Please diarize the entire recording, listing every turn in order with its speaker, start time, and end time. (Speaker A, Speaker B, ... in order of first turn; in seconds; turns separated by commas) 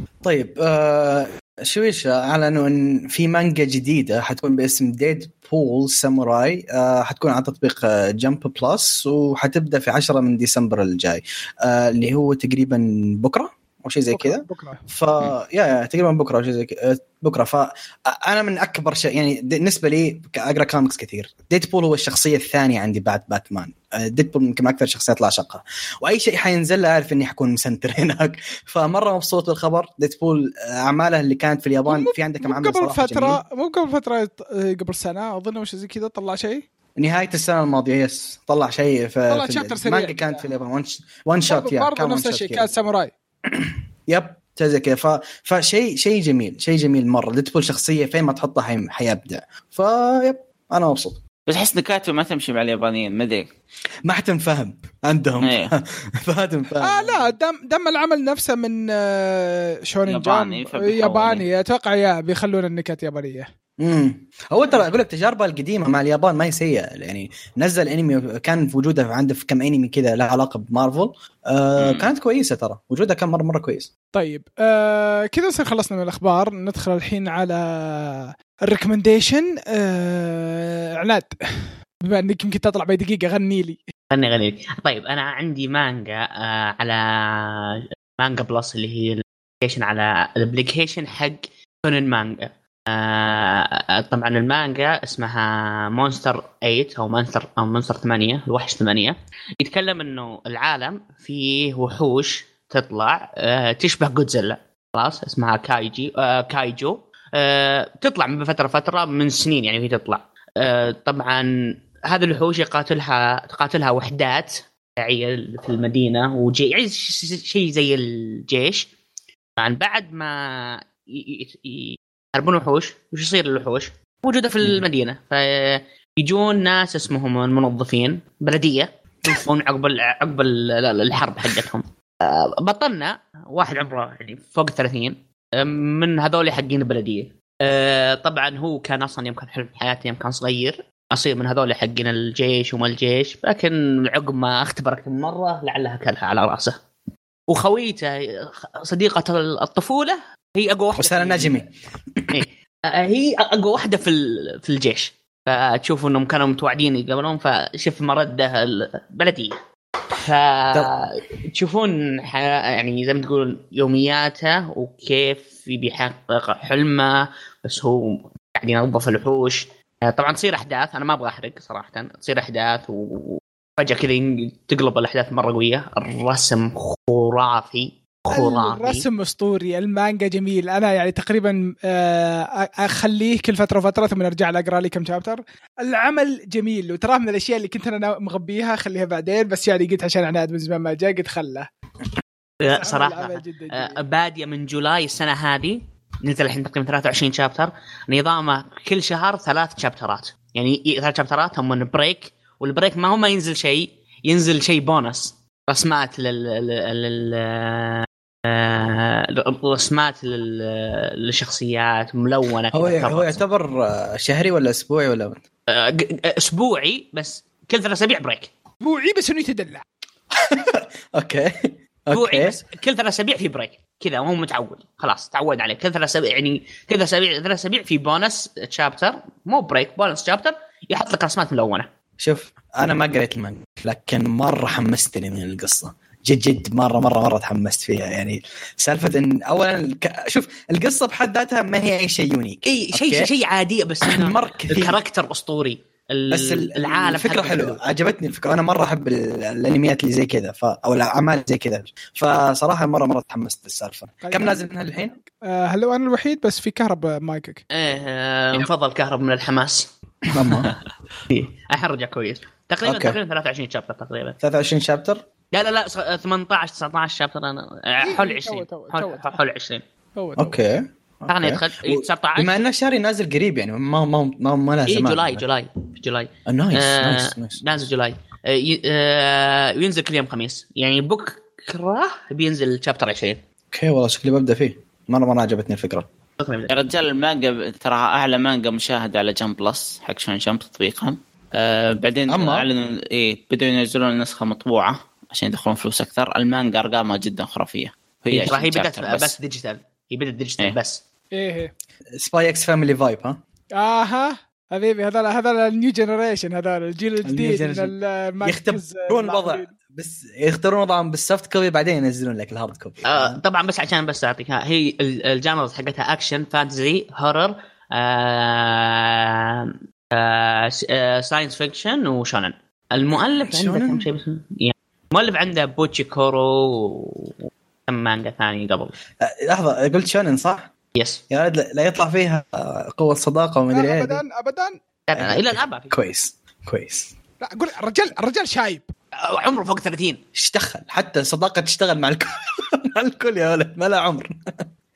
Speaker A: 0.2-33.4, Speaker B: 14.1-14.8, Speaker B: 31.9-36.6, Speaker A: 37.0-42.7, Speaker B: 39.3-40.4, Speaker B: 41.5-43.1, Speaker A: 43.5-51.2, Speaker C: 51.5-53.5, Speaker A: 54.1-57.3, Speaker C: 55.4-55.7, Speaker B: 56.8-63.5, Speaker C: 60.1-61.5, Speaker A: 63.8-73.9, Speaker C: 71.8-72.1, Speaker B: 74.1-83.8, Speaker D: 84.1-111.5, Speaker D: 112.0-118.9, Speaker D: 119.6-146.8, Speaker D: 147.5-151.7, Speaker A: 151.0-152.3, Speaker D: 152.3-159.6, Speaker D: 160.1-179.1, Speaker B: 178.3-191.7, Speaker D: 192.6-213.4, Speaker B: 192.7-194.0, Speaker A: 212.7-215.4, Speaker D: 215.7-218.5, Speaker B: 218.8-219.8, Speaker A: 220.3-222.6, Speaker D: 222.1-231.9, Speaker A: 232.2-243.3, Speaker D: 242.7-247.8, Speaker A: 244.0-245.0, Speaker A: 246.3-255.2, Speaker B: 254.2-254.7, Speaker B: 255.2-257.6, Speaker D: 257.7-259.9, Speaker A: 260.3-260.7, Speaker D: 261.3-264.4, Speaker A: 262.8-263.2, Speaker A: 264.4-265.2, Speaker D: 265.5-269.8, Speaker B: 268.0-269.3, Speaker B: 270.2-270.6, Speaker A: 270.4-275.4, Speaker D: 271.3-272.6, Speaker D: 274.9-283.4, Speaker A: 276.5-277.6, Speaker A: 283.7-286.1, Speaker D: 286.4-286.7, Speaker C: 286.7-299.3, Speaker A: 292.3-292.7, Speaker D: 298.3-301.0, Speaker B: 301.3-301.7, Speaker A: 302.2-303.4, Speaker B: 303.8-309.7, Speaker A: 307.2-313.4, Speaker D: 313.1-327.4, Speaker A: 323.5-324.1, Speaker D: 327.9-328.9, Speaker A: 329.2-330.7, Speaker D: 330.9-331.2, Speaker A: 331.3-334.2, Speaker B: 333.7-334.8, Speaker D: 335.1-336.0, Speaker A: 335.2-337.1, Speaker B: 337.4-338.9, Speaker D: 339.2-340.2, Speaker A: 340.4-344.7